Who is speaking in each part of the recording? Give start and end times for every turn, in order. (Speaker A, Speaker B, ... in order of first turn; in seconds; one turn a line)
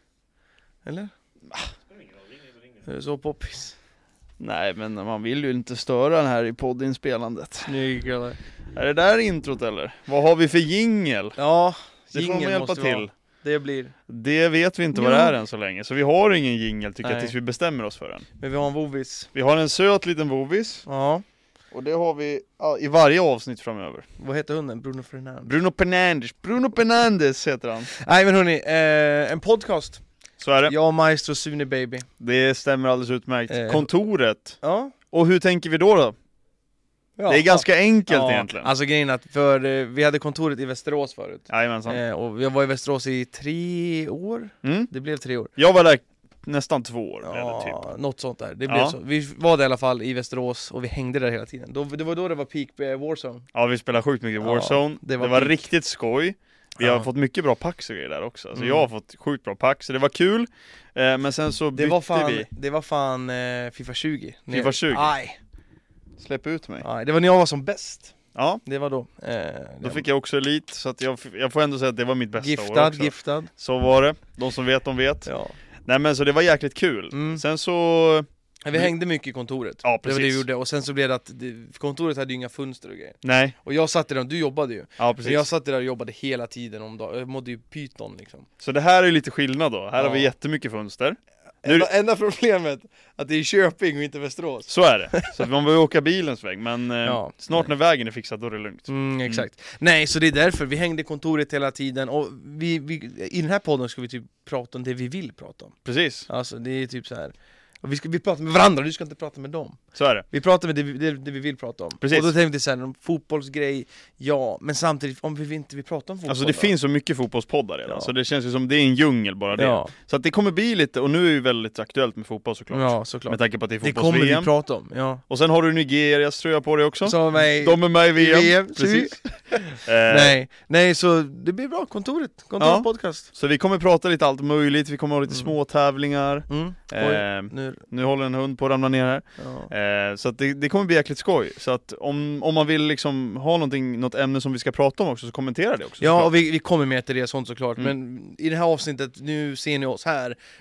Speaker A: 0.8-1.1
Speaker A: 2.8-3.8
Speaker B: 4.4-7.8
Speaker A: 7.7-8.4
Speaker B: 8.8-11.4
Speaker A: 11.4-13.9
Speaker B: 12.1-13.1
Speaker B: 14.1-18.3
Speaker A: 14.9-15.3
Speaker A: 17.0-17.3
Speaker A: 18.4-19.3
Speaker B: 19.3-20.9
Speaker A: 20.9-21.2
Speaker B: 21.7-24.1
Speaker A: 24.2-25.6
Speaker B: 25.5-27.9
Speaker A: 27.9-30.0
Speaker B: 30.4-30.7
Speaker A: 30.7-32.1
Speaker B: 32.2-34.6
Speaker A: 33.5-33.9
Speaker A: 34.6-34.9
Speaker B: 35.1-36.1
Speaker A: 37.2-45.5
Speaker B: 37.3-38.7
Speaker B: 41.5-42.0
Speaker B: 44.6-44.9
Speaker B: 45.6-47.8
Speaker A: 47.2-53.5
Speaker B: 48.7-49.0
Speaker B: 53.5-62.5
Speaker A: 54.4-55.6
Speaker A: 56.8-57.1
Speaker A: 58.5-58.9
Speaker A: 61.8-65.4
Speaker B: 64.5-65.1
Speaker B: 66.2-66.8
Speaker A: 66.8-70.0
Speaker B: 68.3-68.6
Speaker B: 69.8-75.3
Speaker A: 72.4-73.5
Speaker A: 75.2-75.5
Speaker B: 75.9-78.9
Speaker A: 77.1-77.4
Speaker A: 78.7-88.5
Speaker B: 79.8-80.5
Speaker B: 83.2-83.6
Speaker B: 85.0-85.5
Speaker B: 88.6-91.9
Speaker A: 90.0-90.3
Speaker A: 91.6-95.3
Speaker B: 94.7-99.5
Speaker A: 97.0-97.7
Speaker A: 98.9-105.8
Speaker B: 105.8-106.3
Speaker A: 106.3-109.8
Speaker B: 110.0-110.3
Speaker A: 110.3-116.7
Speaker B: 112.0-112.3
Speaker B: 116.3-124.5
Speaker A: 117.9-118.1
Speaker A: 119.5-119.9
Speaker A: 122.7-125.2
Speaker B: 125.3-129.2
Speaker A: 127.0-133.3
Speaker B: 129.8-130.3
Speaker B: 132.6-146.3
Speaker A: 136.5-137.8
Speaker A: 139.4-139.7
Speaker A: 146.0-150.4